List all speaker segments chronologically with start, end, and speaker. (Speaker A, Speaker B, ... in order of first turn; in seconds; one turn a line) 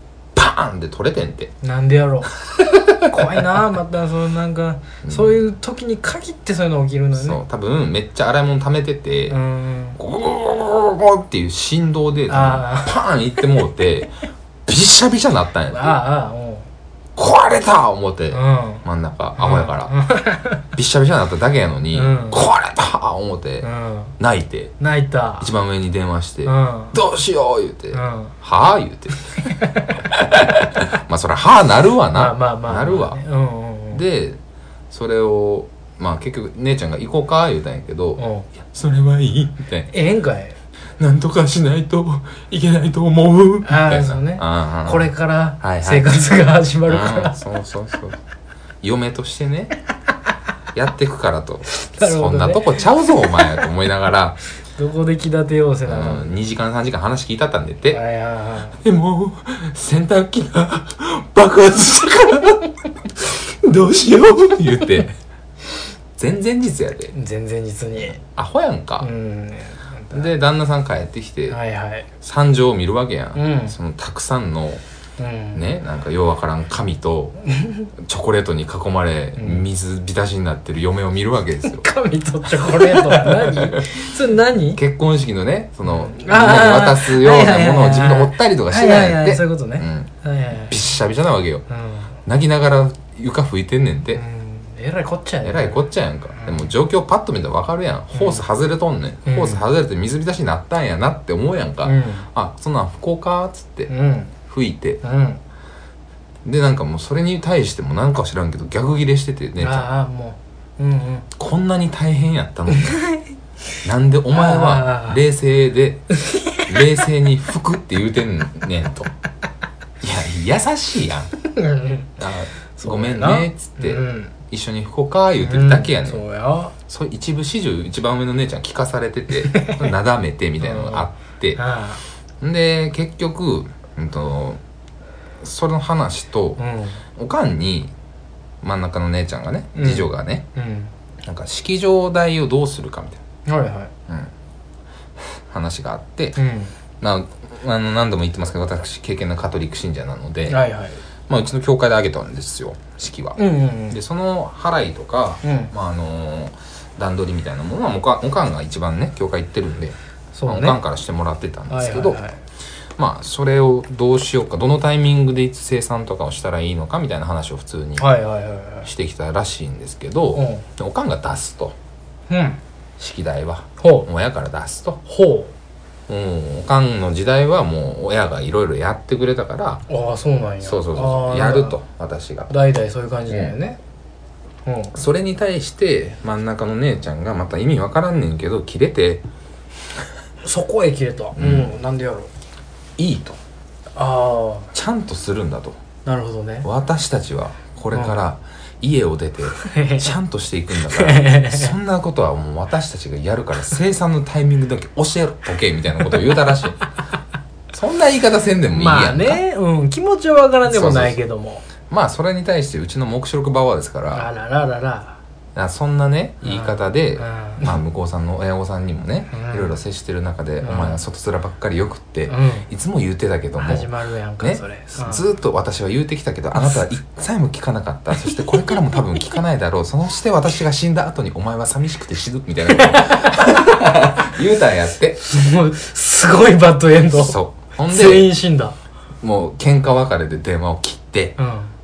Speaker A: 0.3-1.5
Speaker B: 1.6-7.4
Speaker A: 2.9-3.4
Speaker A: 5.0-5.4
Speaker A: 7.2-9.4
Speaker B: 9.3-10.0
Speaker A: 9.9-14.2
Speaker B: 12.3-13.0
Speaker A: 14.7-16.0
Speaker B: 15.7-16.7
Speaker A: 17.2-20.0
Speaker B: 18.3-18.8
Speaker B: 19.4-20.6
Speaker A: 20.7-23.7
Speaker B: 21.9-22.4
Speaker B: 23.6-24.1
Speaker A: 24.2-24.7
Speaker B: 24.8-25.5
Speaker A: 25.4-29.4
Speaker B: 26.4-26.9
Speaker B: 27.9-28.3
Speaker B: 29.4-30.0
Speaker A: 30.0-33.2
Speaker B: 32.1-34.0
Speaker A: 33.9-34.4
Speaker A: 34.9-39.9
Speaker B: 38.2-38.5
Speaker B: 39.9-40.5
Speaker A: 41.0-46.1
Speaker B: 43.6-47.4
Speaker A: 46.9-48.2
Speaker A: 48.8-49.8
Speaker A: 50.7-54.4
Speaker B: 51.8-53.6
Speaker B: 54.8-56.4
Speaker A: 55.8-58.0
Speaker B: 57.9-58.8
Speaker A: 58.8-65.2
Speaker A: 66.2-67.1
Speaker B: 67.1-68.2
Speaker A: 68.0-69.1
Speaker B: 69.0-70.3
Speaker A: 70.1-71.6
Speaker B: 71.5-72.1
Speaker A: 72.2-74.8
Speaker B: 73.3-73.8
Speaker B: 75.2-75.7
Speaker A: 75.5-77.4
Speaker B: 77.5-77.9
Speaker A: 78.0-81.9
Speaker B: 79.3-79.7
Speaker B: 81.6-84.8
Speaker A: 82.6-84.1
Speaker A: 84.7-90.1
Speaker B: 85.8-90.8
Speaker A: 90.6-91.7
Speaker B: 91.7-92.1
Speaker A: 92.2-94.2
Speaker B: 94.1-95.8
Speaker A: 95.4-103.9
Speaker B: 96.4-96.7
Speaker B: 98.1-98.4
Speaker B: 99.2-99.6
Speaker B: 101.8-102.3
Speaker B: 103.9-104.3
Speaker A: 104.5-105.0
Speaker B: 105.0-105.4
Speaker A: 106.4-109.9
Speaker B: 109.6-111.3
Speaker A: 111.3-113.0
Speaker B: 112.7-113.2
Speaker A: 113.8-119.1
Speaker B: 114.3-115.2
Speaker B: 116.1-116.8
Speaker A: 120.0-121.3
Speaker B: 121.4-122.1
Speaker A: 122.2-126.2
Speaker B: 122.8-124.3
Speaker B: 125.4-126.7
Speaker A: 126.9-131.6
Speaker B: 129.4-129.9
Speaker B: 130.6-132.0
Speaker A: 132.4-134.6
Speaker A: 135.4-136.6
Speaker B: 136.6-137.0
Speaker A: 137.2-137.9
Speaker A: 138.6-140.5
Speaker B: 139.7-140.9
Speaker A: 141.2-143.2
Speaker B: 143.4-143.9
Speaker A: 145.5-146.4
Speaker B: 146.3-146.7
Speaker A: 147.0-150.6
Speaker B: 150.5-151.0
Speaker A: 151.3-162.2
Speaker B: 153.3-154.0
Speaker B: 155.4-155.7
Speaker B: 160.3-160.8
Speaker B: 161.7-162.4
Speaker A: 163.0-168.1
Speaker B: 168.0-168.9
Speaker A: 168.8-171.7
Speaker B: 170.3-170.6
Speaker B: 172.3-172.6
Speaker A: 173.0-175.0
Speaker B: 173.8-174.1
Speaker B: 175.1-175.5
Speaker A: 176.1-179.8
Speaker B: 179.9-181.8
Speaker A: 180.6-182.5
Speaker B: 182.5-183.8
Speaker A: 183.3-183.5
Speaker B: 184.6-184.9
Speaker A: 184.9-189.2
Speaker B: 190.4-192.3
Speaker A: 191.3-191.7
Speaker A: 193.0-193.4
Speaker B: 193.9-194.7
Speaker A: 194.7-195.8
Speaker B: 196.0-196.7
Speaker A: 196.6-206.8
Speaker B: 199.5-200.2
Speaker B: 200.8-201.7
Speaker A: 207.7-209.4
Speaker B: 208.7-211.6
Speaker A: 210.7-211.2
Speaker A: 211.9-214.3
Speaker B: 214.1-215.2
Speaker A: 215.6-235.2
Speaker B: 216.4-217.8
Speaker B: 219.3-219.7
Speaker B: 220.6-221.0
Speaker B: 222.3-222.7
Speaker B: 223.6-225.2
Speaker B: 228.3-228.7
Speaker B: 232.7-234.0
Speaker B: 235.2-238.8
Speaker A: 237.1-238.3
Speaker A: 239.2-241.4
Speaker B: 241.4-241.7